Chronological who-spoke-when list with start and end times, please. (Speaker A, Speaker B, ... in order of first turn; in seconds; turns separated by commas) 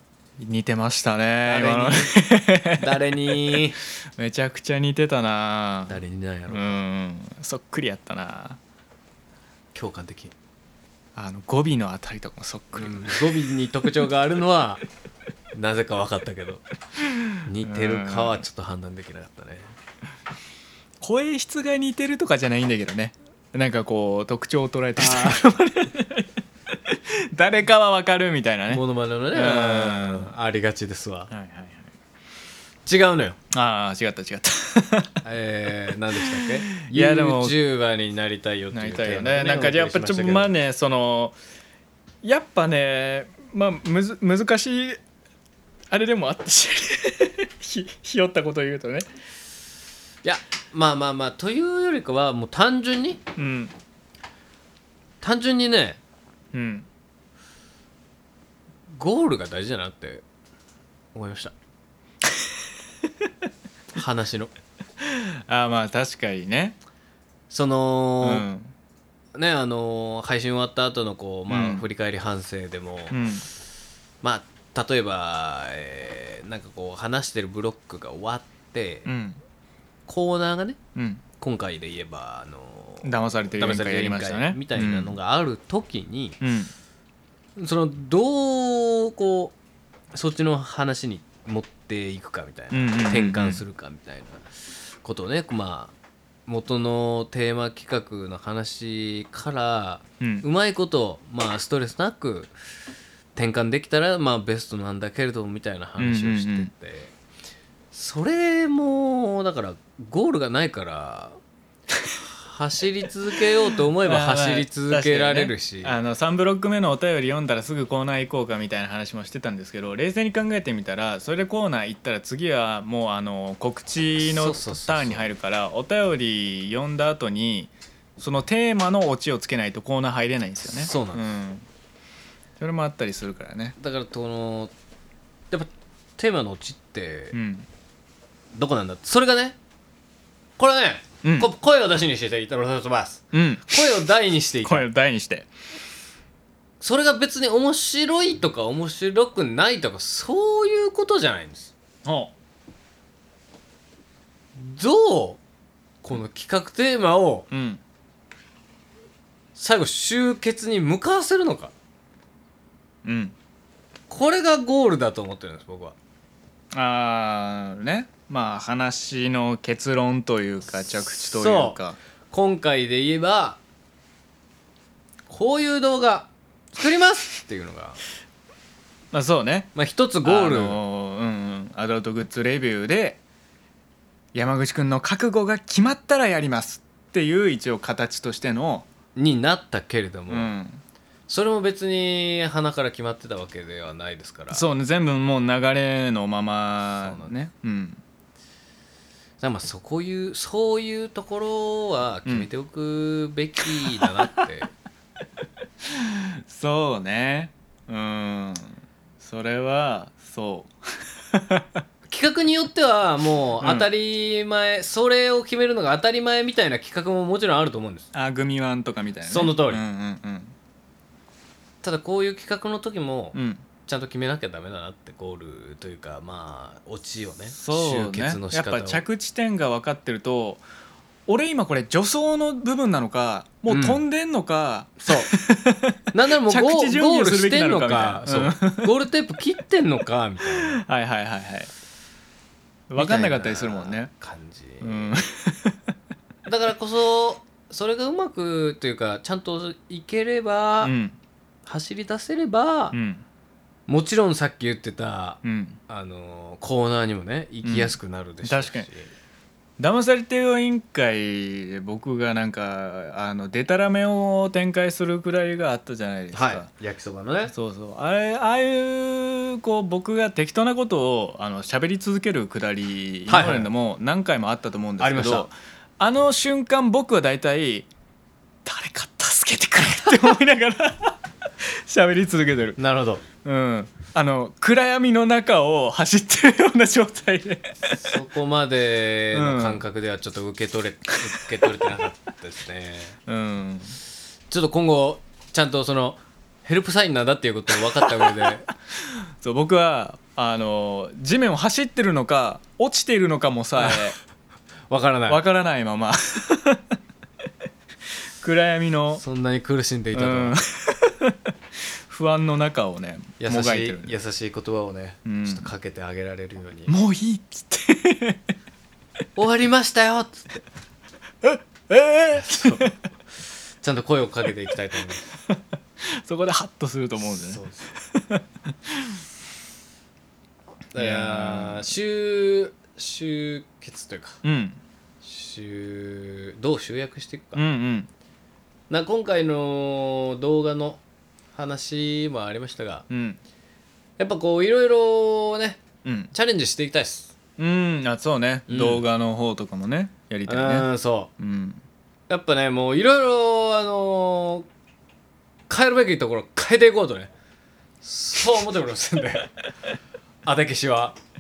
Speaker A: 0.4-2.9, Speaker B: 1.4-2.2, Speaker B: 2.7-3.8, Speaker A: 4.2-8.6, Speaker B: 5.9-6.8, Speaker B: 9.7-10.3, Speaker A: 11.2-13.3, Speaker B: 12.8-14.8, Speaker B: 15.5-16.6, Speaker B: 17.4-19.7, Speaker A: 17.6-18.4, Speaker A: 21.0-26.3, Speaker B: 25.0-25.5, Speaker A: 26.9-30.3, Speaker B: 28.7-31.3, Speaker A: 31.3-31.9, Speaker B: 32.9-33.4, Speaker A: 33.5-35.2, Speaker B: 35.2-40.5, Speaker A: 36.2-37.6, Speaker A: 38.7-41.4, Speaker A: 42.2-45.0, Speaker A: 45.9-49.1, Speaker B: 50.2-53.2, Speaker A: 53.4-53.7, Speaker B: 55.2-56.0, Speaker A: 56.5-56.9, Speaker B: 58.9-60.2, Speaker B: 61.1-61.5, Speaker B: 63.9-64.5, Speaker A: 65.0-66.8, Speaker B: 67.5-68.5, Speaker A: 68.2-68.7, Speaker B: 69.3-73.2, Speaker A: 71.5-71.9, Speaker A: 73.1-73.5, Speaker B: 74.2-79.1, Speaker A: 79.0-79.4, Speaker B: 80.1-80.8, Speaker A: 81.0-81.2, Speaker B: 81.4-86.4, Speaker A: 83.0-85.2, Speaker A: 86.4-86.7, Speaker B: 87.6-89.5, Speaker B: 90.1-95.9, Speaker A: 92.7-93.6, Speaker B: 96.5-102.5, Speaker A: 100.2-100.5, Speaker B: 103.3-107.1, Speaker A: 106.0-106.7, Speaker B: 107.9-111.4, Speaker B: 112.3-116.0, Speaker A: 114.0-131.7, Speaker B: 124.2-125.3, Speaker B: 130.6-131.3, Speaker A: 132.6-133.8, Speaker B: 133.8-134.7, Speaker B: 135.5-137.4, Speaker A: 137.3-137.7, Speaker B: 138.5-139.6, Speaker B: 140.6-144.9, Speaker A: 141.2-141.5, Speaker A: 143.3-143.8, Speaker A: 144.6-145.5, Speaker B: 146.8-151.7, Speaker A: 152.1-152.3, Speaker B: 154.6-155.4, Speaker B: 156.0-157.5, Speaker A: 157.5-157.8, Speaker B: 159.6-161.7, Speaker A: 163.1-163.3, Speaker B: 164.1-166.0, Speaker A: 166.7-172.0, Speaker B: 171.1-171.8, Speaker B: 172.3-173.6, Speaker B: 175.3-178.0, Speaker A: 179.1-179.7, Speaker B: 179.8-180.8, Speaker A: 180.2-183.2, Speaker A: 184.3-188.9, Speaker B: 189.2-190.5, Speaker A: 190.3-190.8, Speaker B: 191.3-194.7, Speaker A: 194.5-198.0, Speaker B: 197.0-197.3, Speaker B: 199.4-204.7, Speaker A: 205.9-210.7, Speaker A: 211.3-211.8, Speaker B: 212.1-218.1, Speaker A: 213.6-213.9, Speaker A: 218.1-220.5, Speaker B: 219.2-219.8, Speaker B: 221.8-229.0, Speaker A: 223.3-223.6, Speaker A: 227.5-230.6, Speaker A: 231.3-239.0, Speaker B: 233.7-234.0, Speaker B: 235.0-235.3, Speaker B: 236.1-240.8, Speaker A: 240.7-241.7, Speaker A: 242.9-244.1, Speaker B: 243.0-245.2, Speaker A: 244.8-245.8, Speaker B: 246.5-250.9, Speaker A: 250.8-251.2, Speaker B: 251.7-253.0, Speaker A: 252.9-253.2, Speaker B: 253.9-259.1, Speaker A: 255.4-255.8, Speaker A: 257.6-258.9, Speaker A: 259.8-266.7, Speaker B: 266.3-267.5, Speaker A: 267.5-277.9, Speaker B: 273.3-273.7, Speaker B: 275.0-275.5, Speaker A: 278.6-281.2, Speaker A: 281.9-282.8, Speaker B: 282.8-283.2, Speaker A: 283.4-288.1, Speaker B: 288.0-293.2, Speaker A: 289.3-289.8, Speaker A: 293.3-294.0, Speaker B: 294.5-298.6, Speaker A: 299.4-304.2, Speaker B: 303.8-304.1, Speaker B: 304.9-305.4, Speaker A: 305.3-306.8, Speaker A: 308.4-309.2, Speaker B: 309.2-310.6, Speaker A: 310.1-311.4, Speaker A: 312.1-314.2, Speaker B: 313.4-316.9, Speaker A: 315.2-315.7, Speaker A: 316.9-318.4, Speaker B: 319.4-320.6, Speaker A: 321.4-322.9, Speaker B: 322.3-325.3, Speaker A: 326.0-327.6, Speaker B: 327.2-327.9, Speaker A: 328.1-329.2, Speaker B: 330.9-334.4, Speaker A: 331.0-331.9, Speaker A: 334.4-334.8, Speaker B: 335.2-337.6, Speaker A: 337.6-338.1, Speaker B: 338.9-341.0, Speaker B: 341.5-343.1, Speaker A: 343.1-343.4, Speaker B: 344.2-345.8, Speaker A: 346.1-346.3, Speaker B: 346.3-347.3, Speaker A: 347.6-351.8, Speaker B: 348.7-349.1, Speaker B: 350.5-351.3, Speaker B: 352.3-354.7, Speaker B: 355.7-357.3, Speaker B: 358.0-359.5, Speaker B: 360.4-361.2